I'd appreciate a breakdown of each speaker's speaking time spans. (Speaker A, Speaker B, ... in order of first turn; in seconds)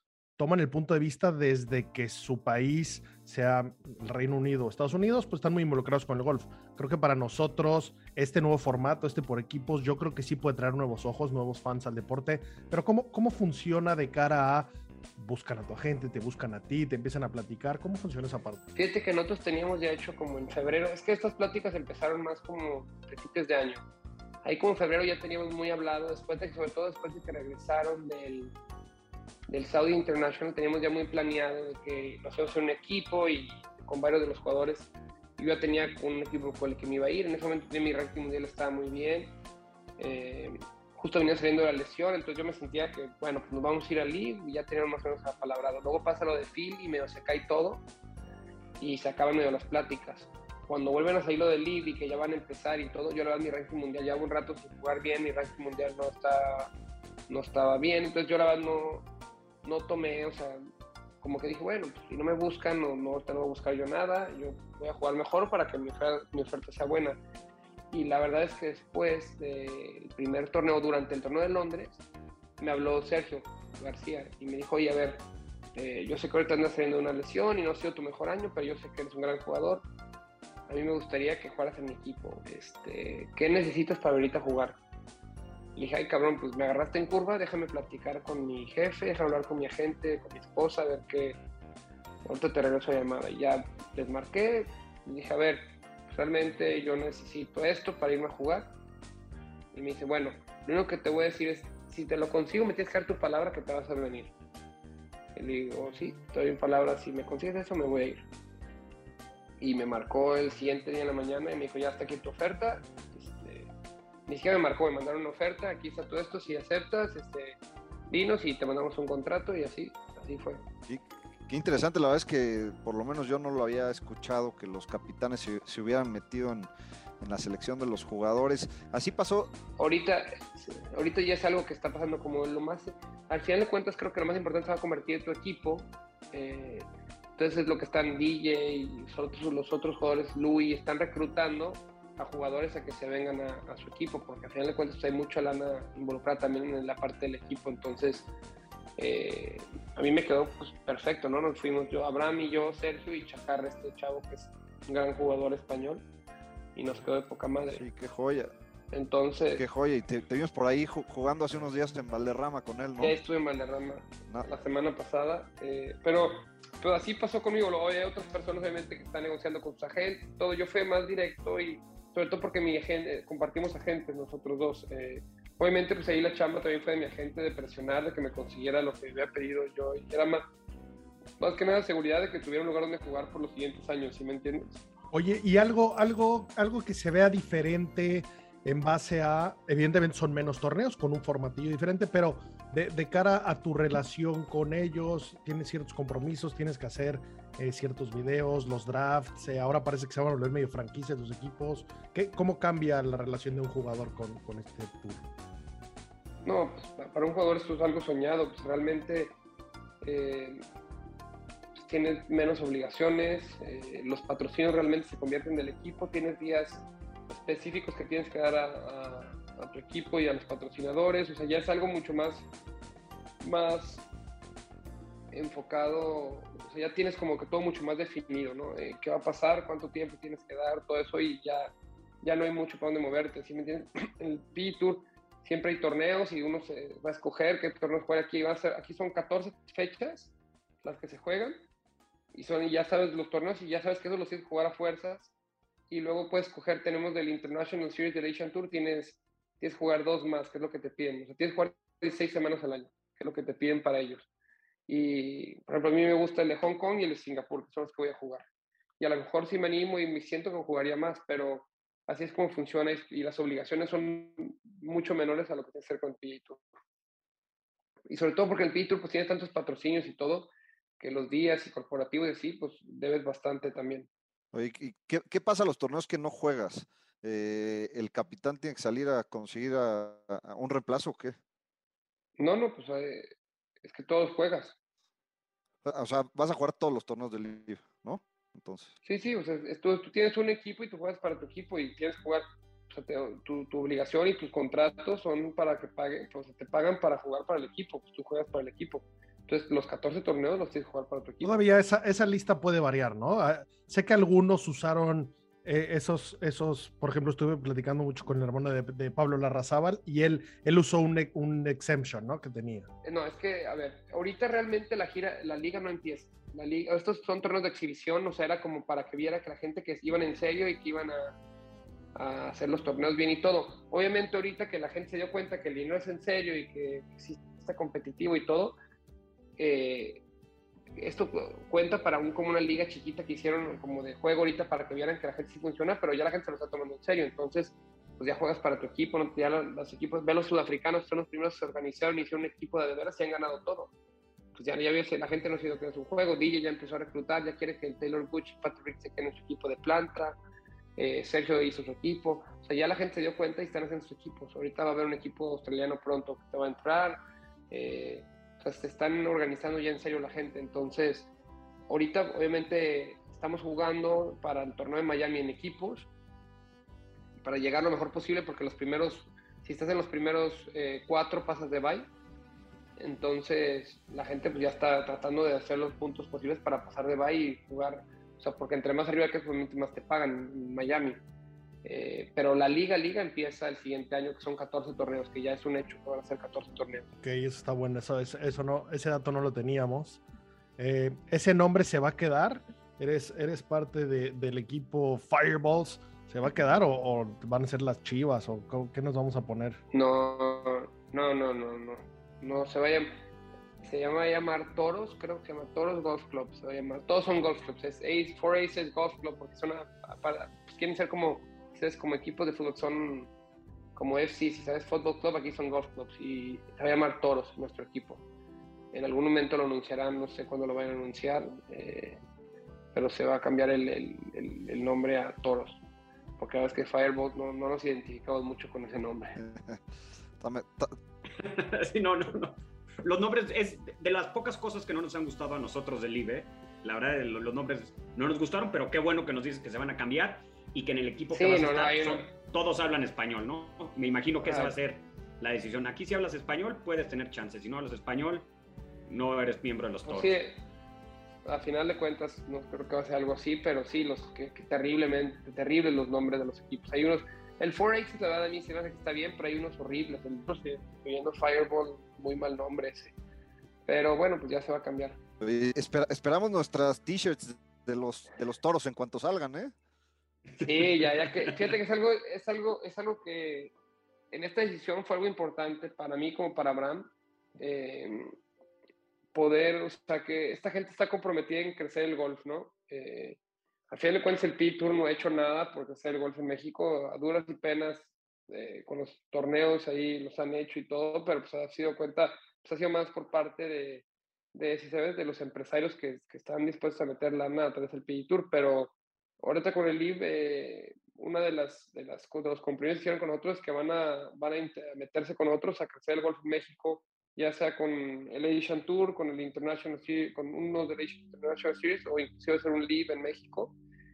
Speaker A: 0.4-18.6, 185.1-205.2, 301.4-312.9, 387.2-390.2, 390.8-399.8
Speaker B: 18.8-23.8, 24.4-28.5, 29.5-39.3, 40.0-47.8, 48.8-56.7, 57.3-59.0, 59.6-60.6, 61.2-67.2, 67.9-72.0, 72.6-75.2, 75.8-79.8, 80.7-84.8, 85.8-91.4, 92.2-98.7, 99.7-104.3, 105.3-108.2, 109.6-113.7, 114.3-117.6, 118.1-120.6, 129.8-148.3, 149.0-156.0, 156.8-157.8, 158.9-159.6, 163.0-180.5, 181.4-184.8, 206.4-209.3, 210.0-210.6, 211.8-222.5, 223.4-224.0, 225.3-231.7, 232.2-241.6, 242.3-245.3, 245.9-254.3, 254.9-258.4, 259.0-266.6, 268.1-274.1, 282.4-283.3, 283.8-284.7, 289.0-301.6, 313.0-321.3, 322.1-328.8, 329.6-330.2, 331.0-343.9, 344.5-350.4, 351.0-357.2, 357.7-361.3, 361.9-366.1, 367.4-372.1, 373.0-381.2, 381.8-387.1, 399.9-403.1, 403.8-413.3, 413.9-418.2, 418.9-422.2, 422.9-425.8, 426.4-429.4, 441.3-442.3, 444.4-444.7, 450.1-450.6, 451.4-463.1, 463.9-465.2, 470.6-473.7, 474.3-478.3, 479.3-483.4, 483.9-513.7
Speaker C: 120.9-126.7, 127.2-129.5, 157.7-158.5, 159.5-163.2, 274.5-281.4, 285.8-288.9, 429.4-429.8, 430.4-430.9, 465.4-469.7
Speaker D: 431.4-448.5, 449.1-450.3